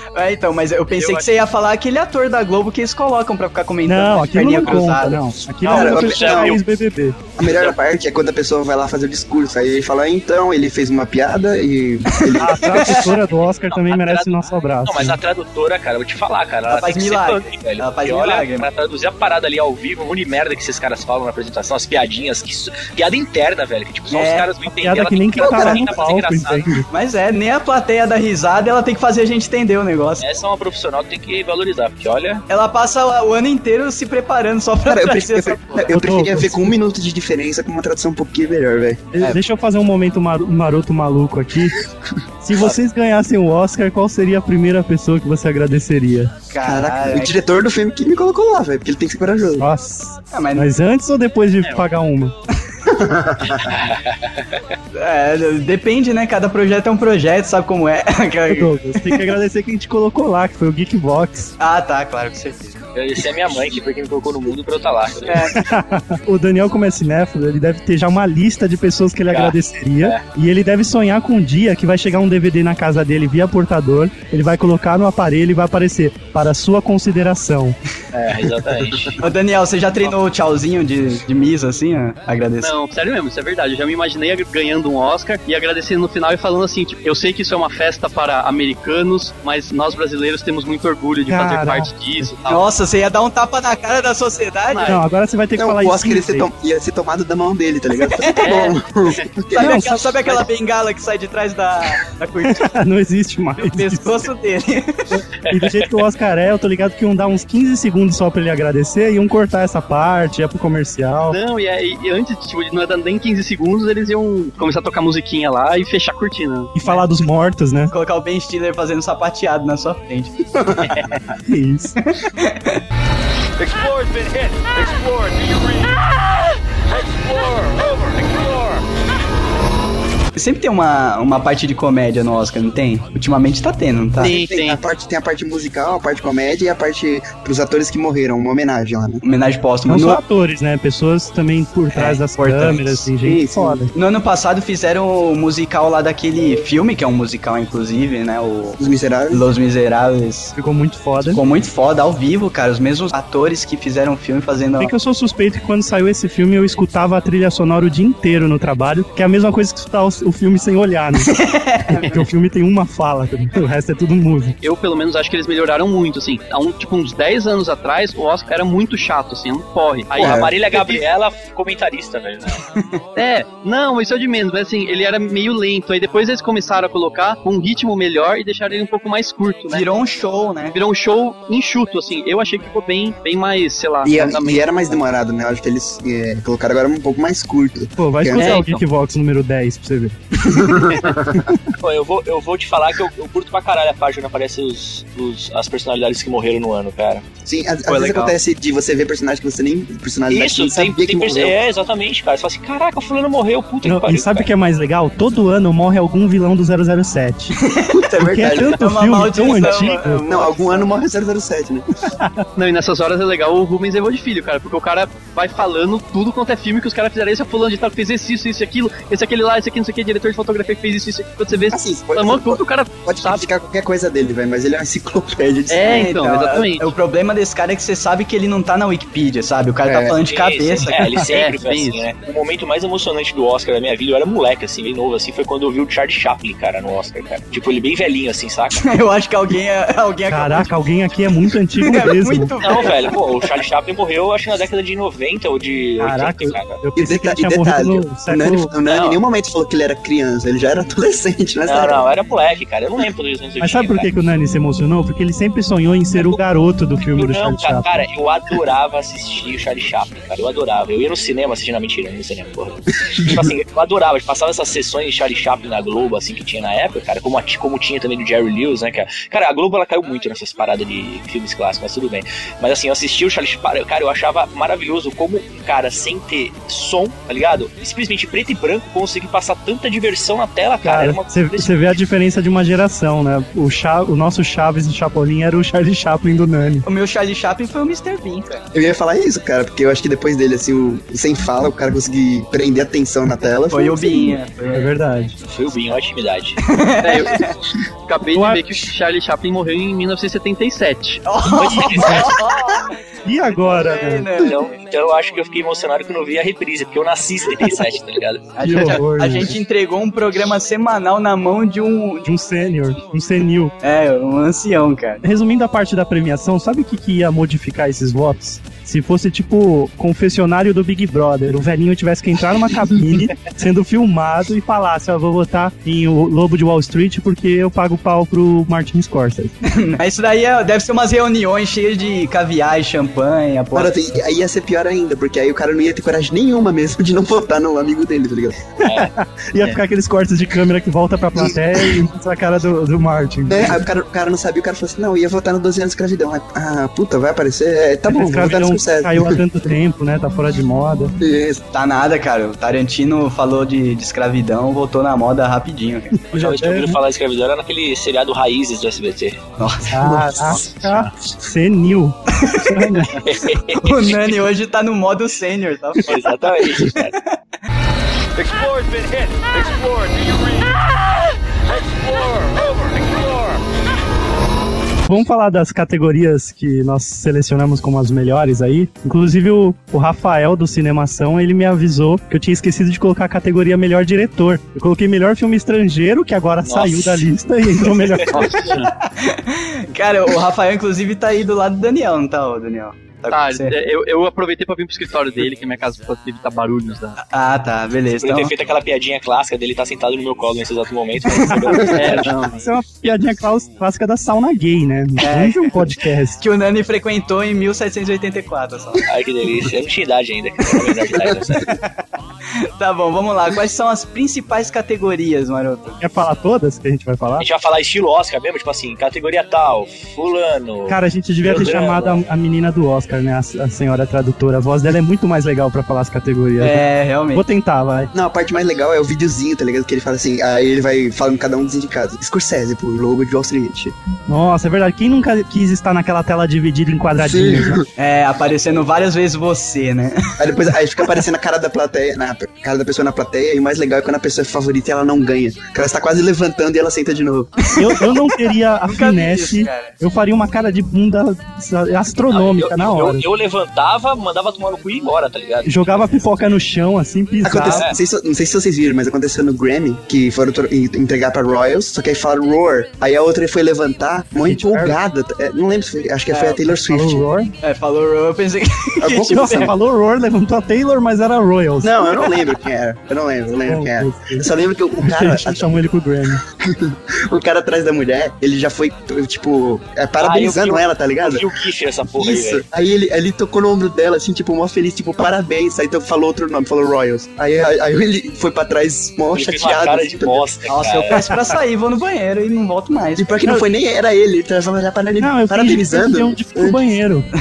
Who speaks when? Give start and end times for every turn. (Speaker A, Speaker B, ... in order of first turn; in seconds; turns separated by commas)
Speaker A: 0.1-5.2, Speaker B: 1.0-1.2, Speaker C: 3.9-7.2, Speaker D: 5.6-6.6, Speaker E: 5.6-6.6, Speaker D: 7.4-12.9, Speaker E: 7.4-7.8, Speaker A: 12.2-12.9, Speaker C: 12.4-15.2, Speaker E: 13.3-26.7, Speaker A: 16.7-18.7, Speaker A: 24.1-24.5, Speaker C: 24.7-26.9, Speaker D: 25.4-25.9, Speaker A: 26.9-30.2, Speaker E: 30.2-32.4, Speaker A: 32.5-35.9, Speaker D: 34.8-39.1, Speaker C: 35.9-36.6, Speaker C: 39.1-41.8, Speaker C: 42.4-46.3, Speaker A: 46.5-47.3, Speaker D: 46.6-49.6, Speaker C: 49.6-52.3, Speaker A: 50.3-50.7, Speaker D: 52.9-53.7, Speaker E: 53.6-54.6, Speaker A: 54.9-59.2, Speaker C: 58.5-61.5, Speaker A: 61.6-62.8, Speaker E: 62.9-65.5, Speaker A: 65.3-65.6, Speaker C: 65.5-77.8, Speaker E: 69.3-70.2, Speaker E: 78.1-79.2, Speaker A: 79.2-82.7, Speaker B: 82.6-92.7, Speaker C: 91.3-91.9, Speaker A: 92.5-95.0, Speaker B: 94.7-95.0, Speaker C: 94.8-96.5, Speaker D: 95.5-100.0, Speaker A: 98.2-98.5, Speaker B: 98.4-98.8, Speaker A: 99.5-102.7, Speaker C: 99.6-100.2, Speaker C: 102.5-104.2, Speaker A: 103.7-105.2, Speaker C: 105.1-111.4, Speaker E: 105.5-105.9, Speaker B: 111.2-116.8, Speaker C: 116.7-117.9, Speaker A: 117.9-120.4, Speaker B: 120.9-121.2, Speaker C: 121.5-121.9, Speaker A: 122.1-122.8, Speaker F: 123.6-128.8, Speaker A: 130.3-134.3, Speaker D: 134.2-139.2, Speaker B: 134.2-134.8, Speaker A: 139.2-140.2, Speaker C: 139.9-143.9, Speaker A: 141.9-143.1, Speaker D: 143.2-143.8, Speaker A: 143.9-148.8, Speaker D: 148.8-149.4, Speaker A: 149.3-150.6, Speaker C: 150.6-151.4, Speaker A: 151.3-154.9, Speaker C: 154.8-164.5, Speaker A: 161.3-162.1, Speaker B: 164.6-171.0, Speaker E: 170.1-172.6, Speaker D: 170.2-170.5, Speaker B: 173.2-179.8, Speaker A: 179.7-180.8, Speaker B: 180.7-184.9, Speaker D: 184.0-188.6, Speaker C: 188.0-190.8, Speaker B: 188.4-188.8, Speaker D: 190.5-191.3, Speaker E: 191.8-197.2, Speaker D: 197.4-201.6, Speaker A: 197.9-198.3, Speaker E: 200.3-204.5, Speaker C: 203.8-207.5, Speaker A: 207.6-210.9, Speaker D: 208.1-208.7, Speaker C: 208.2-210.2, Speaker D: 210.3-211.9, Speaker C: 212.2-212.4, Speaker B: 212.6-223.5, Speaker D: 221.7-226.2, Speaker B: 225.7-226.9, Speaker A: 225.8-230.9, Speaker D: 229.8-230.2, Speaker E: 230.2-238.8, Speaker B: 231.2-232.0, Speaker A: 238.8-240.7, Speaker C: 240.3-242.5, Speaker A: 241.8-243.1, Speaker E: 242.6-246.8, Speaker C: 246.0-248.7, Speaker D: 246.9-252.1, Speaker E: 248.8-249.2, Speaker E: 251.7-254.1, Speaker C: 253.6-258.0, Speaker E: 256.1-256.4, Speaker E: 257.1-282.0, Speaker C: 280.8-286.9, Speaker A: 286.8-288.6, Speaker D: 288.7-294.4, Speaker A: 293.7-294.9, Speaker C: 294.7-295.4, Speaker E: 295.5-296.6, Speaker A: 296.6-297.6, Speaker B: 297.0-297.5, Speaker B: 298.1-301.2, Speaker C: 298.3-298.6, Speaker A: 301.2-303.0, Speaker E: 301.5-302.4, Speaker C: 301.7-302.3, Speaker C: 303.2-304.3, Speaker A: 303.5-304.8, Speaker E: 304.4-308.9, Speaker A: 308.6-312.2, Speaker C: 308.6-309.6, Speaker C: 312.2-313.7, Speaker A: 313.8-315.2, Speaker C: 315.2-329.5, Speaker A: 329.6-333.9, Speaker D: 333.7-338.6, Speaker C: 338.8-343.8, Speaker E: 338.8-339.1, Speaker D: 341.3-341.9, Speaker D: 343.5-349.4, Speaker C: 348.1-351.1, Speaker D: 351.2-351.6, Speaker A: 351.7-356.1, Speaker C: 356.2-357.0, Speaker E: 356.3-359.4, Speaker A: 359.6-360.0, Speaker C: 359.9-363.2, Speaker E: 360.5-361.1, Speaker A: 362.4-362.9, Speaker E: 363.2-364.4, Speaker A: 363.7-366.1, Speaker E: 366.0-367.1, Speaker F: 368.3-373.8, Speaker C: 375.1-388.5, Speaker E: 386.6-388.3, Speaker B: 388.3-388.9, Speaker A: 388.9-393.7, Speaker B: 393.3-397.2, Speaker A: 397.2-398.5, Speaker E: 398.1-402.3, Speaker B: 401.9-402.6, Speaker C: 402.5-406.4, Speaker A: 405.2-405.8, Speaker A: 406.4-409.1, Speaker E: 409.1-411.7, Speaker A: 412.8-416.0, Speaker C: 416.0-417.4, Speaker E: 417.4-422.2, Speaker C: 420.9-428.1, Speaker A: 426.6-427.4, Speaker D: 428.1-433.9, Speaker C: 434.3-437.8, Speaker D: 437.2-437.8, Speaker A: 438.0-440.3, Speaker D: 440.4-447.7, Speaker A: 447.7-448.1, Speaker C: 447.7-453.2, Speaker A: 448.8-449.9, Speaker E: 452.3-456.2, Speaker C: 455.6-457.8, Speaker D: 457.4-467.3, Speaker E: 457.7-457.9, Speaker C: 464.4-464.9, Speaker A: 466.3-466.6, Speaker C: 466.8-467.5, Speaker A: 467.6-469.7, Speaker D: 469.0-469.6, Speaker C: 469.2-472.0, Speaker D: 471.8-475.8, Speaker C: 473.7-474.5, Speaker C: 475.0-476.4, Speaker D: 476.5-481.5, Speaker E: 480.2-482.6, Speaker D: 482.1-490.5, Speaker E: 489.3-491.2, Speaker A: 490.7-493.5, Speaker C: 491.3-491.5, Speaker D: 493.2-496.8, Speaker C: 495.2-497.3